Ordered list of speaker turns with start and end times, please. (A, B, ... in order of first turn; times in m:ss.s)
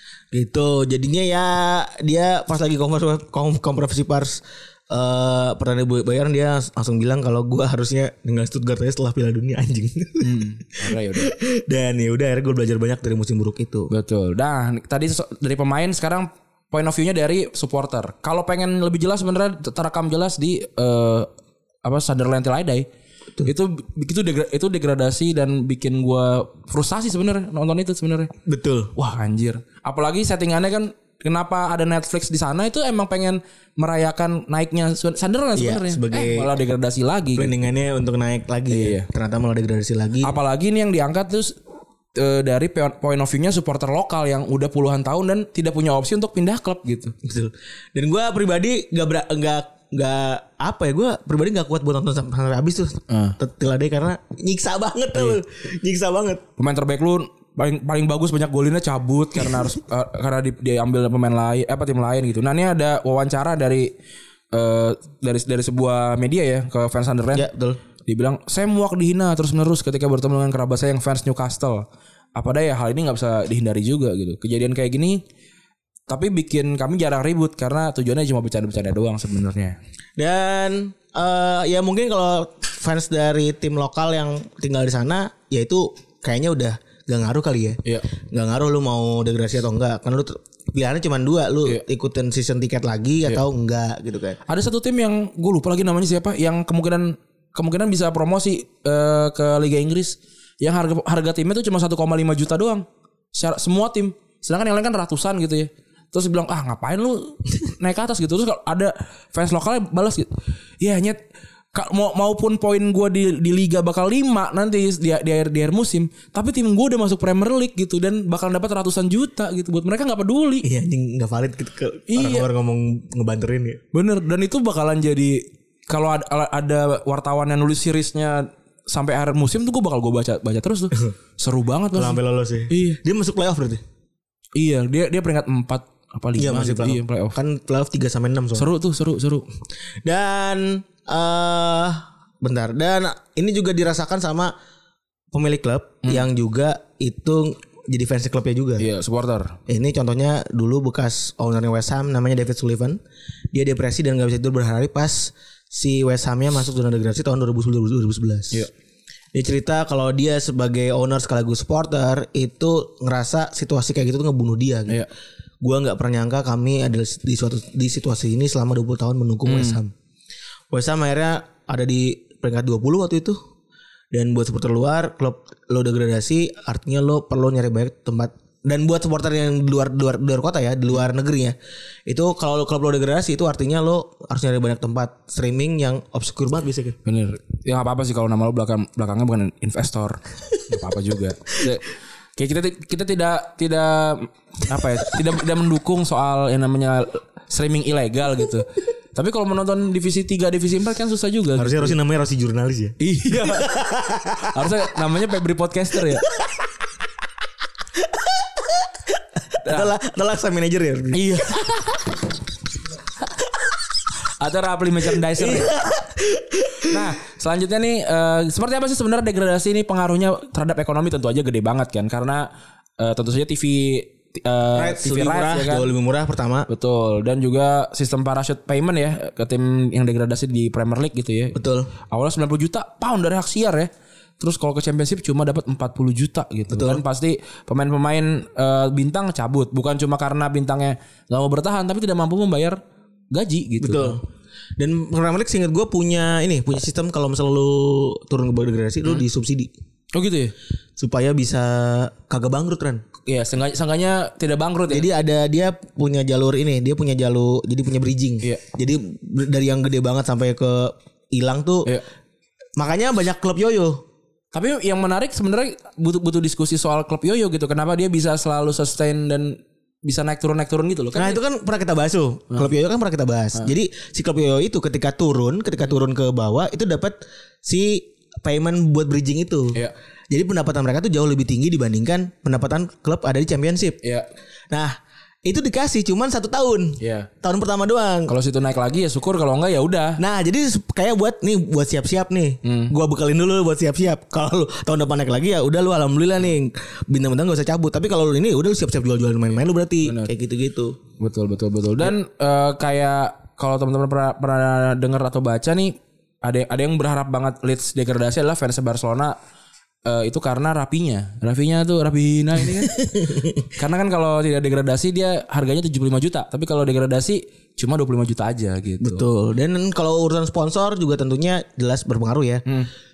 0:00.3-0:13.9 A
0:10.2-0:11.3 B
0:13.9-0:21.3 B
0:21.8-0:22.9 B
0:23.4-0:28.3 B
0:28.4-0:28.9 A
0:28.9-0:37.5 B
0:35.5-0:36.5 A
0:37.4-0:40.4 A
0:38.7-0:39.1 B
0:40.2-0:41.6 B
0:42.1-0:47.1 B
0:47.2-0:56.4 A
0:53.1-0:53.4 B
0:56.6-1:03.9 B
1:04.5-1:07.5 B
1:07.3-1:07.8 A
1:08.0-1:15.2 B
1:16.1-1:19.8 B
1:20.2-1:34.4 A
1:34.4-1:51.2 B
1:51.7-2:00.7 B
2:00.6-2:03.8 A
2:02.1-2:02.5 B
2:03.9-2:12.2 B
2:11.9-2:13.8 A
2:12.7-2:13.0 B
2:14.6-2:17.4 B
2:16.4-2:18.7 A
2:18.5-2:19.5 B
2:20.0-2:24.5 A
2:25.3-2:28.9 A
2:28.8-2:29.6 B
2:29.7-2:33.0 A
2:33.5-2:38.6 A
2:39.3-2:45.0 A
2:45.6-2:49.9 A
2:49.4-2:49.8 B
2:50.7-2:53.4 A
2:54.1-3:01.6 A
3:02.1-3:07.0 A
3:07.0-3:21.9 B
3:21.6-3:24.6 A
3:23.0-3:26.2 B
3:28.0-3:29.1 A
3:29.6-3:31.8 A
3:29.6-3:29.9 B
3:31.1-3:31.7 B
3:34.3-3:35.7 B
3:35.4-3:37.1 A
3:36.8-3:42.5 B
3:43.0-3:45.9 B
3:44.7-3:46.7 A
3:46.7-4:02.8 B
3:51.5-3:51.9 A
3:56.7-3:57.0 A
4:03.3-4:04.2 B
4:03.8-4:04.2 A
4:04.8-4:09.7 A
4:10.1-4:10.5 B
4:11.0-4:13.0 A
4:13.2-4:15.1 B
4:14.9-4:21.9 A
4:22.8-4:24.0 A
4:24.5-4:31.4 B
4:31.1-4:44.0 A
4:44.0-4:44.3 B
4:44.7-4:48.3 A
4:47.0-4:47.3 B
4:48.3-4:50.2 B
4:50.2-5:01.0 A
4:52.6-4:52.9 B
5:00.0-5:00.3 B
5:01.2-5:09.3 B
5:10.0-5:13.0 B
5:12.7-5:13.7 A
5:13.7-5:19.2 B
5:19.0-5:22.6 A